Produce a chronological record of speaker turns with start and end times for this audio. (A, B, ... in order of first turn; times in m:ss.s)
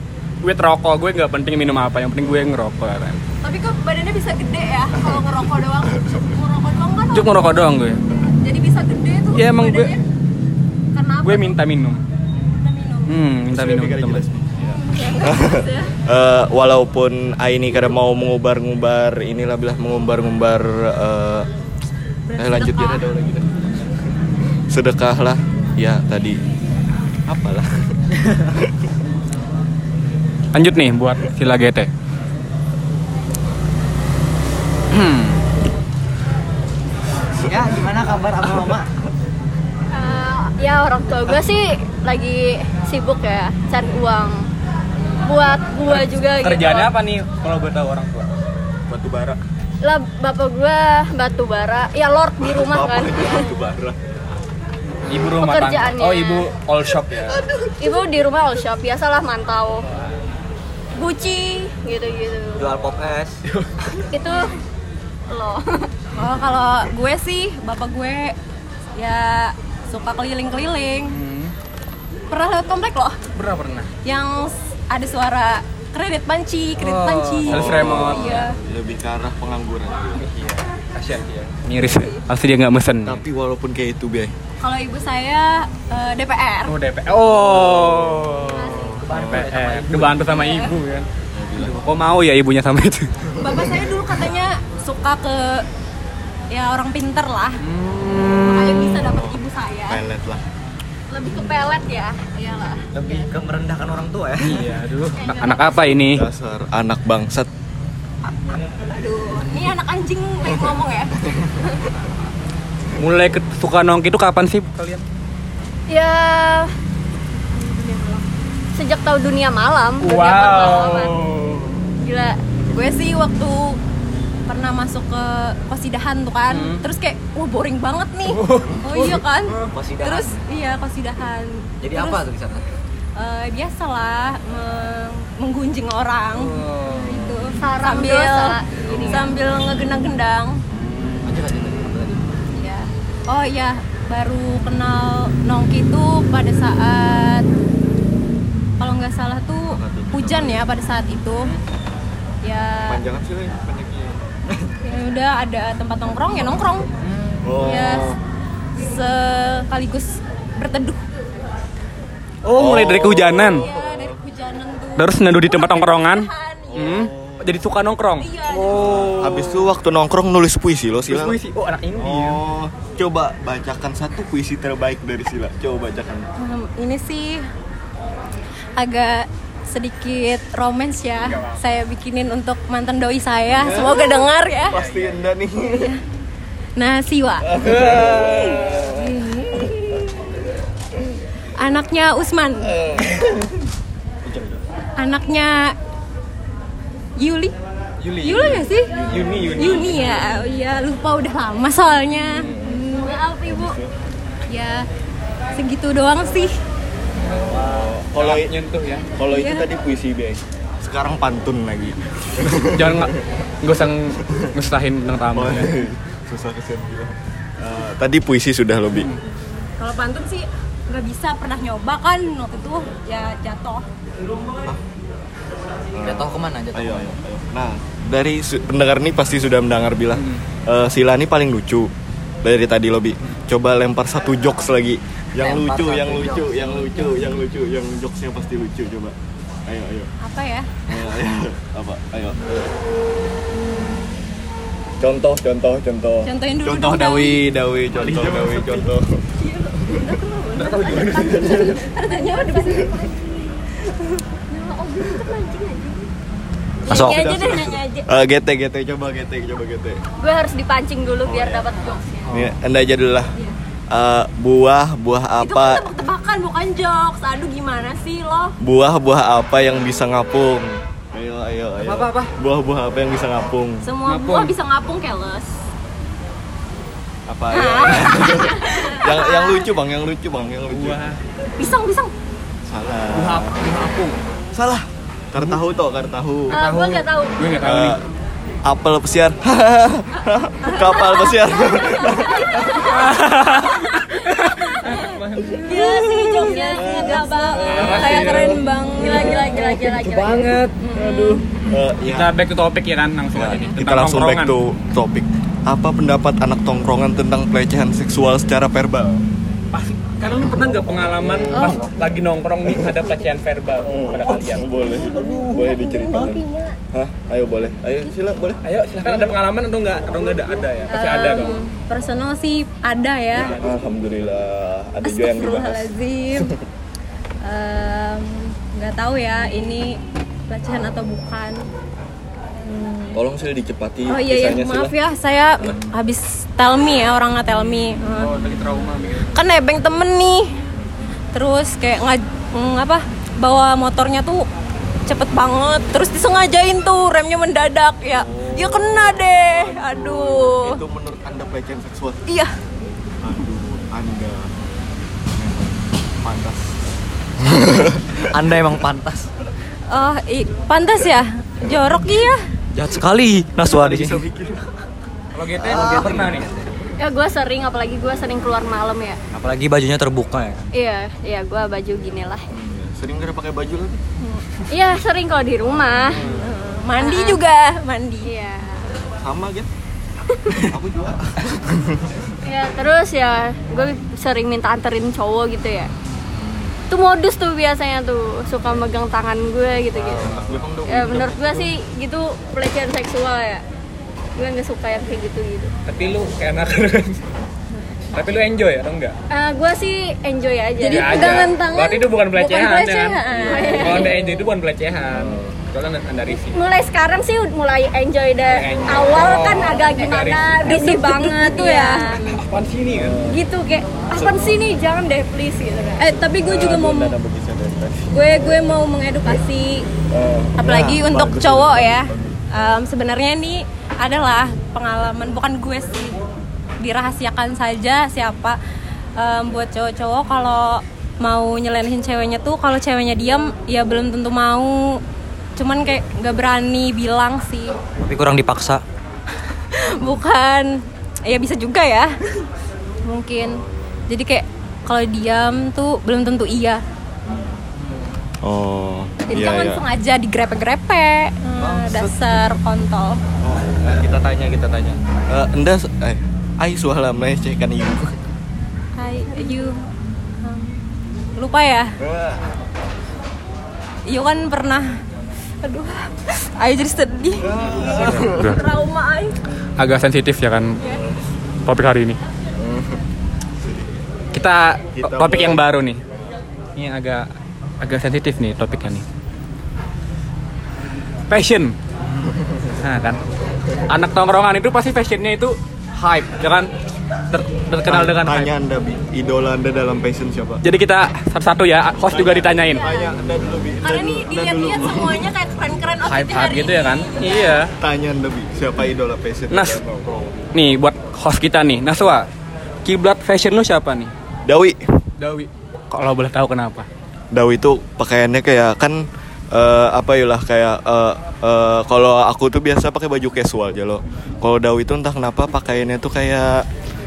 0:00.4-0:03.2 A
0:03.4-0:07.7 B
0:07.1-0:08.0 A
0:08.4-0:10.0 B
0:09.3-0:09.9 A
0:10.9-0:11.6 B
0:11.2-0:12.0 A
0:12.5-0:13.1 B
0:13.1-0:14.2 A
0:13.5-0:21.5 C
0:14.8-0:15.9 B
0:15.0-0:15.8 D
0:22.3-0:23.1 B
0:22.4-0:23.7 C
0:24.7-0:26.4 C
0:27.3-0:27.9 C
0:30.5-0:31.9 A
0:34.9-0:35.4 A
0:37.4-0:38.9 E
0:39.9-0:44.4 D
0:45.2-0:46.9 D
0:45.8-0:48.3 A
0:48.9-0:49.4 A
0:49.8-0:53.6 D
0:52.4-0:54.0 C
0:55.1-0:57.4 A
0:55.4-0:56.5 D
0:57.3-0:57.7 C
0:57.8-0:59.8 D
1:01.0-1:02.7 D
1:02.6-1:03.4 E
1:03.5-1:04.0 A
1:04.1-1:04.5 D
1:05.3-1:05.9 D
1:06.1-1:08.4 B
1:09.0-1:11.1 B
1:11.1-1:11.5 A
1:12.3-1:13.2 B
1:13.3-1:13.9 A
1:14.0-1:18.6 B
1:16.8-1:18.4 A
1:17.4-1:20.2 C
1:20.2-1:23.2 A
1:21.9-1:22.2 B
1:23.0-1:24.3 C
1:24.6-1:26.7 B
1:26.6-1:31.1 A
1:27.3-1:28.3 C
1:28.4-1:29.0 B
1:29.0-1:30.3 E
1:29.1-1:29.5 C
1:30.2-1:30.7 B
1:31.3-1:31.7 C
1:31.6-1:33.1 A
1:33.4-1:35.6 B
1:33.5-1:33.8 C
1:36.5-1:37.6 B
1:37.6-1:39.0 A
1:38.3-1:40.4 C
1:38.5-1:40.0 B
1:41.1-1:42.8 B
1:41.3-1:42.4 D
1:42.9-1:44.7 E
1:44.4-1:46.2 A
1:45.1-1:45.9 D
1:45.2-1:45.8 B
1:46.1-1:47.5 C
1:48.9-1:51.3 B
1:53.0-1:55.0 A
1:55.9-1:56.7 D
1:57.9-1:58.2 B
1:58.8-2:01.1 D
2:00.0-2:01.8 A
2:02.0-2:02.4 D
2:02.7-2:03.8 B
2:04.5-2:12.2 B
2:06.5-2:06.8 A
2:08.3-2:09.7 A
2:09.7-2:10.4 E
2:11.8-2:12.7 E
2:13.2-2:20.6 B
2:16.4-2:17.2 A
2:17.6-2:19.3 D
2:20.8-2:21.4 C
2:21.2-2:22.2 E
2:22.6-2:27.4 B
2:28.8-2:31.5 B
2:29.7-2:30.6 C
2:32.4-2:33.0 B
2:32.9-2:34.7 C
2:34.8-2:36.9 B
2:37.0-2:37.3 A
2:37.4-2:38.2 C
2:37.6-2:38.1 B
2:38.8-2:41.0 B
2:42.4-2:43.7 A
2:42.6-2:44.2 C
2:43.5-2:47.0 B
2:45.0-2:49.7 A
2:46.7-2:47.6 C
2:48.2-2:49.0 B
2:48.7-2:51.4 C
2:51.0-2:52.4 A
2:52.0-2:56.2 C
2:56.4-2:57.5 B
2:58.8-3:04.8 B
3:01.2-3:01.6 A
3:03.5-3:05.9 C
3:04.7-3:05.2 A
3:05.7-3:06.0 B
3:06.8-3:10.0 B
3:07.4-3:09.7 C
3:07.7-3:08.4 A
3:11.6-3:12.7 B
3:12.6-3:13.3 C
3:14.2-3:14.6 C
3:15.0-3:15.7 B
3:17.2-3:17.5 B
3:18.0-3:20.4 A
3:18.2-3:19.0 B
3:18.9-3:20.0 C
3:19.5-3:23.2 B
3:22.3-3:22.9 C
3:22.9-3:23.8 D
3:23.4-3:23.8 C
3:24.5-3:24.8 B
3:25.5-3:26.5 B
3:27.2-3:28.5 C
3:27.6-3:29.0 A
3:29.1-3:33.1 C
3:29.3-3:29.7 B
3:32.4-3:35.7 A
3:35.3-3:39.1 C
3:38.9-3:39.2 A
3:39.8-3:43.8 B
3:45.9-3:51.9 C
3:46.0-3:47.2 E
3:50.1-3:50.4 A
3:52.4-3:59.1 C
3:55.4-3:57.2 E
3:59.7-4:00.1 C
4:00.2-4:00.7 B
4:00.9-4:02.7 C
4:05.0-4:09.2 C
4:06.2-4:07.4 B
4:07.9-4:08.9 A
4:09.4-4:13.1 B
4:09.8-4:10.1 C
4:10.5-4:11.7 A
4:11.1-4:11.8 C
4:11.3-4:13.0 D
4:14.5-4:16.1 D
4:16.8-4:17.9 B
4:16.9-4:17.2 E
4:16.9-4:18.1 D
4:17.0-4:20.0 C
4:20.2-4:22.4 D
4:21.2-4:21.6 C
4:22.3-4:23.3 C
4:23.9-4:25.9 C
4:25.4-4:28.5 B
4:28.6-4:33.8 C
4:31.8-4:32.3 A
4:33.8-4:35.5 B
4:34.0-4:34.5 A
4:37.3-4:41.0 C
4:37.5-4:39.7 B
4:40.7-4:41.2 A
4:41.6-4:42.1 B
4:42.7-4:43.5 C
4:43.1-4:44.2 A
4:44.5-4:46.6 C
4:46.5-4:47.5 D
4:46.5-4:48.0 A
4:47.6-4:48.0 C
4:48.6-4:52.9 C
4:50.6-4:52.7 B
4:52.8-4:56.5 A
4:54.7-4:55.1 B
4:55.5-4:55.7 C
4:55.6-5:01.4 B
4:55.7-5:00.6 D
4:56.8-4:57.2 C
4:57.6-4:58.6 A
4:59.1-5:01.4 A
5:01.6-5:02.4 C
5:02.0-5:04.5 A
5:03.3-5:09.2 C
5:09.7-5:14.7 A
5:10.7-5:11.9 C
5:13.8-5:18.6 C
5:15.3-5:16.7 D
5:18.6-5:21.6 A
5:20.9-5:23.6 B
5:21.3-5:21.7 D
5:23.3-5:23.8 A
5:23.6-5:26.5 C
5:25.0-5:26.5 B
5:27.4-5:31.6 B
5:32.6-5:33.2 B
5:33.1-5:34.9 C
5:34.1-5:38.3 B
5:35.6-5:35.9 C
5:38.2-5:39.3 A
5:39.3-5:40.5 B
5:41.3-5:44.4 B
5:45.1-5:50.8 B
5:48.2-5:49.0 C
5:49.7-5:52.2 C
5:53.2-5:54.6 C
5:55.4-5:56.7 C
5:57.5-5:58.0 C
5:58.1-5:59.3 E
5:59.9-6:02.4 B
6:02.7-6:04.2 E
6:03.6-6:04.7 C
6:05.3-6:06.5 A
6:05.6-6:06.7 E
6:05.7-6:06.1 C
6:07.0-6:09.2 D
6:09.3-6:10.6 E
6:10.7-6:12.4 D
6:12.5-6:14.0 C
6:14.7-6:16.3 D
6:15.7-6:16.2 C
6:16.1-6:16.4 A
6:16.3-6:18.3 B
6:17.0-6:17.4 D
6:18.2-6:18.8 D
6:19.2-6:19.7 C
6:20.5-6:22.1 C
6:22.4-6:25.9 D
6:26.4-6:26.7 C
6:26.9-6:30.3 D
6:29.9-6:31.7 C
6:30.2-6:30.6 A
6:30.8-6:33.6 D
6:34.4-6:35.7 D
6:35.8-6:37.2 A
6:38.1-6:39.2 A
6:39.3-6:41.5 D
6:40.8-6:44.2 B
6:40.9-6:46.6 A
6:43.4-6:44.2 D
6:45.1-6:45.5 C
6:46.5-6:52.4 D
6:48.4-6:50.6 A
6:50.6-6:52.1 B
6:52.2-6:53.2 A
6:52.9-6:53.4 C
6:53.2-6:56.2 D
6:54.1-6:54.5 C
6:56.0-6:57.1 B
6:56.3-6:58.1 C
6:58.1-6:59.8 B
7:00.1-7:02.4 C
7:00.6-7:06.2 B
7:06.8-7:08.6 B
7:09.2-7:15.0 B
7:15.6-7:17.7 B
7:18.0-7:18.8 E
7:19.7-7:20.7 B
7:21.2-7:22.1 B
7:23.0-7:26.8 B
7:23.4-7:24.0 C
7:28.4-7:29.8 C
7:29.3-7:33.2 B
7:31.6-7:32.4 C
7:33.4-7:38.2 C
7:39.0-7:39.8 B
7:40.4-7:40.8 B
7:41.4-7:41.9 B
7:42.0-7:42.4 C
7:44.0-7:45.0 B
7:45.6-7:49.4 B
7:47.4-7:48.6 C
7:47.9-7:48.6 A
7:49.8-7:50.8 A
7:51.6-7:52.2 A
7:52.6-7:53.0 C
7:53.6-7:53.9 C
7:54.3-7:56.0 A
7:55.0-7:55.6 C
7:56.8-7:57.3 A
7:57.8-7:59.0 A
8:01.3-8:01.7 A
8:02.3-8:02.7 C
8:02.8-8:03.2 A
8:03.9-8:06.7 A
8:07.3-8:08.5 A
8:07.9-8:10.6 C
8:10.6-8:12.8 A
8:12.1-8:15.3 C
8:12.8-8:13.1 D
8:13.8-8:17.6 B
8:16.0-8:17.7 A
8:17.8-8:20.5 C
8:19.5-8:19.8 A
8:20.5-8:22.3 A
8:22.8-8:24.1 A
8:24.4-8:24.8 C
8:25.2-8:26.9 A
8:27.3-8:36.6 C